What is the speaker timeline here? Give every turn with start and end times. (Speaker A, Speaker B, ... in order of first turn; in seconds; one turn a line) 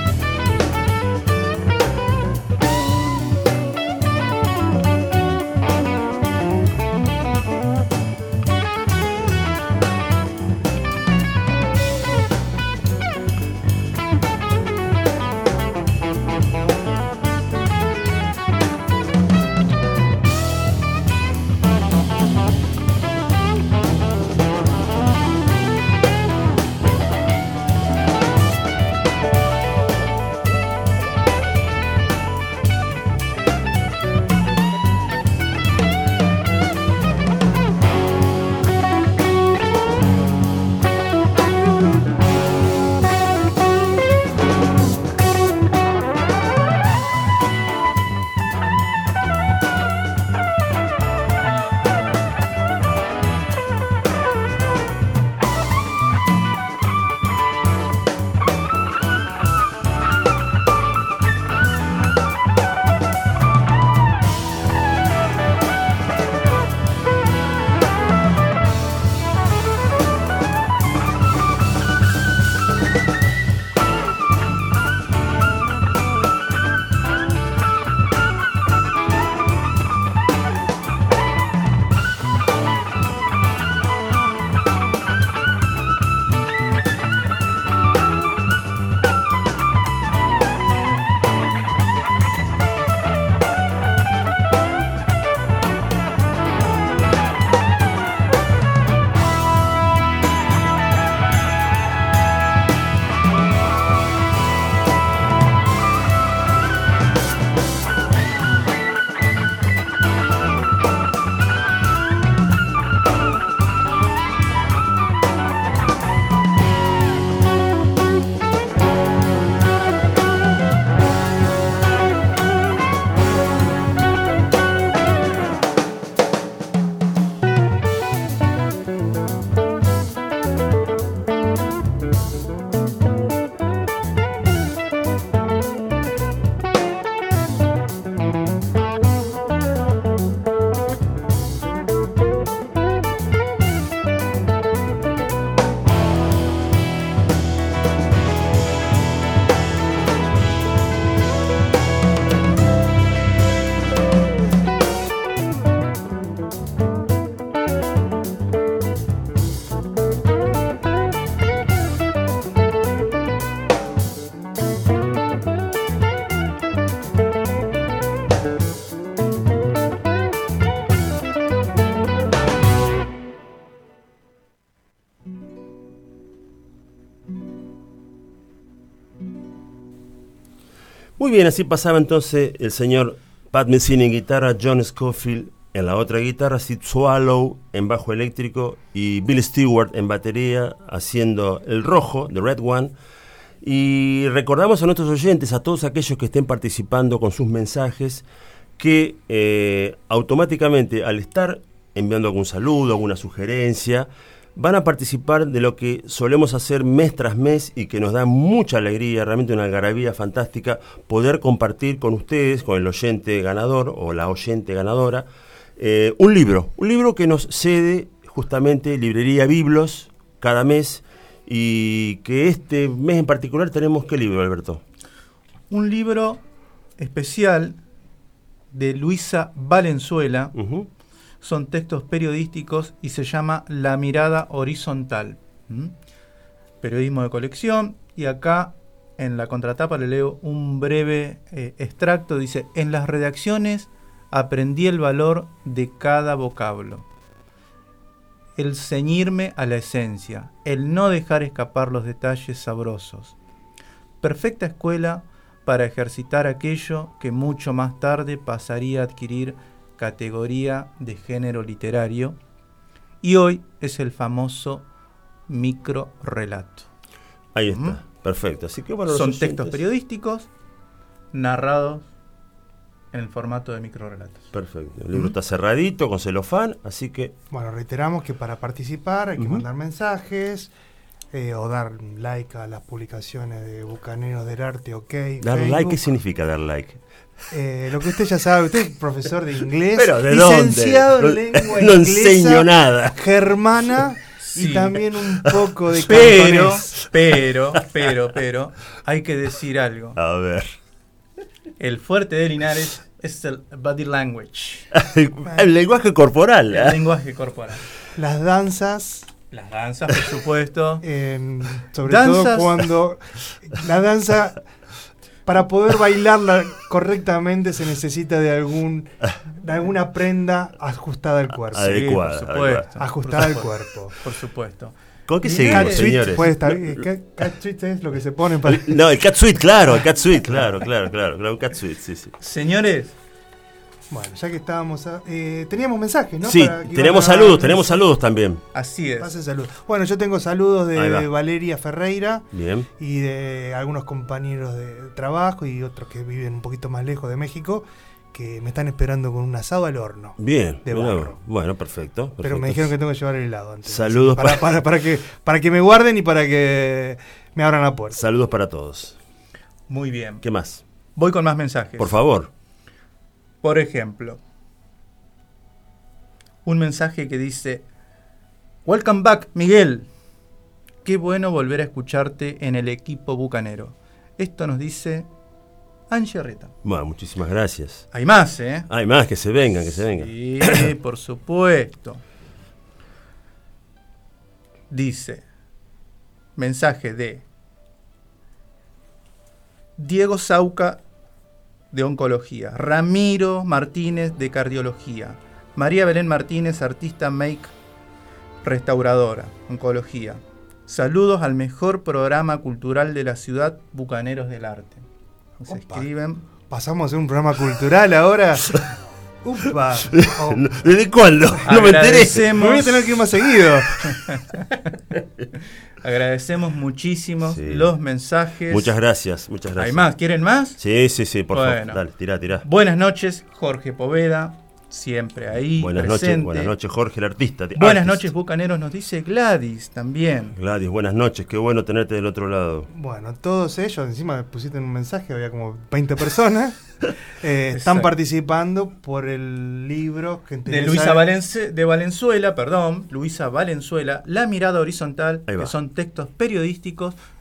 Speaker A: 181.2-192.9
Speaker A: 193.6-198.2
Speaker A: 198.8-215.3
Speaker A: 215.8-224.8
Speaker B: 225.7-226.4
Speaker B: 227.0-227.8
Speaker B: 228.7-230.5
Speaker A: 230.6-230.9
Speaker B: 231.4-235.9
Speaker B: 236.8-247.1
Speaker B: 248.6-253.4
Speaker B: 254.2-262.4
Speaker B: 263.2-264.9
Speaker B: 265.5-266.9
Speaker A: 267.6-269.8
Speaker B: 267.7-268.0
Speaker B: 269.1-270.5
Speaker B: 271.3-272.1
Speaker B: 273.1-274.5
Speaker A: 274.5-277.3
Speaker C: 277.5-280.7
Speaker A: 279.4-279.6
Speaker C: 281.3-286.0
Speaker A: 285.4-287.0
Speaker C: 287.5-296.9
Speaker A: 289.9-293.1
Speaker B: 294.4-294.9
Speaker B: 296.1-300.2
Speaker A: 296.1-296.6
Speaker A: 300.2-300.7
Speaker B: 301.8-304.9
Speaker A: 304.9-307.0
Speaker B: 306.7-307.8
Speaker C: 308.2-309.3
Speaker B: 309.5-311.0
Speaker C: 311.0-314.6
Speaker B: 312.1-312.8
Speaker C: 315.5-322.2
Speaker A: 321.7-322.9
Speaker B: 321.8-326.4
Speaker C: 323.0-324.2
Speaker A: 325.3-327.0
Speaker C: 325.5-329.0
Speaker A: 328.7-332.3
Speaker C: 330.0-330.8
Speaker B: 332.4-333.1
Speaker C: 334.1-338.0
Speaker A: 336.4-338.6
Speaker B: 338.7-339.3
Speaker C: 339.2-351.4
Speaker A: 340.9-341.3
Speaker A: 342.5-342.9
Speaker A: 350.4-352.9
Speaker C: 352.4-358.2
Speaker A: 353.9-354.7
Speaker A: 358.1-359.2
Speaker B: 359.9-360.4
Speaker A: 360.4-360.8
Speaker B: 361.2-362.2
Speaker A: 362.0-362.5
Speaker B: 363.6-364.4
Speaker B: 366.7-367.9
Speaker B: 368.9-370.1
Speaker B: 371.1-375.3
Speaker B: 376.1-376.7
Speaker A: 376.8-378.1
Speaker B: 378.1-378.9
Speaker A: 378.9-380.9
Speaker B: 380.1-382.2
Speaker B: 384.9-385.4
Speaker B: 386.6-387.4
Speaker B: 390.0-391.0
Speaker B: 391.9-397.7
Speaker B: 398.6-405.1
Speaker B: 405.6-406.4
Speaker C: 405.7-406.1
Speaker C: 406.7-408.8
Speaker C: 409.4-410.6
Speaker A: 410.1-412.5
Speaker B: 411.6-413.0
Speaker C: 412.5-414.1
Speaker B: 414.1-414.9
Speaker B: 416.0-418.9
Speaker A: 417.4-417.9
Speaker A: 418.7-420.1
Speaker B: 419.8-420.8
Speaker A: 420.8-422.6
Speaker B: 421.5-422.0
Speaker B: 422.6-426.7
Speaker A: 425.8-428.3
Speaker B: 427.8-430.6
Speaker A: 430.6-432.9
Speaker C: 432.9-441.3
Speaker B: 437.7-438.1
Speaker B: 440.7-447.2
Speaker A: 445.5-445.8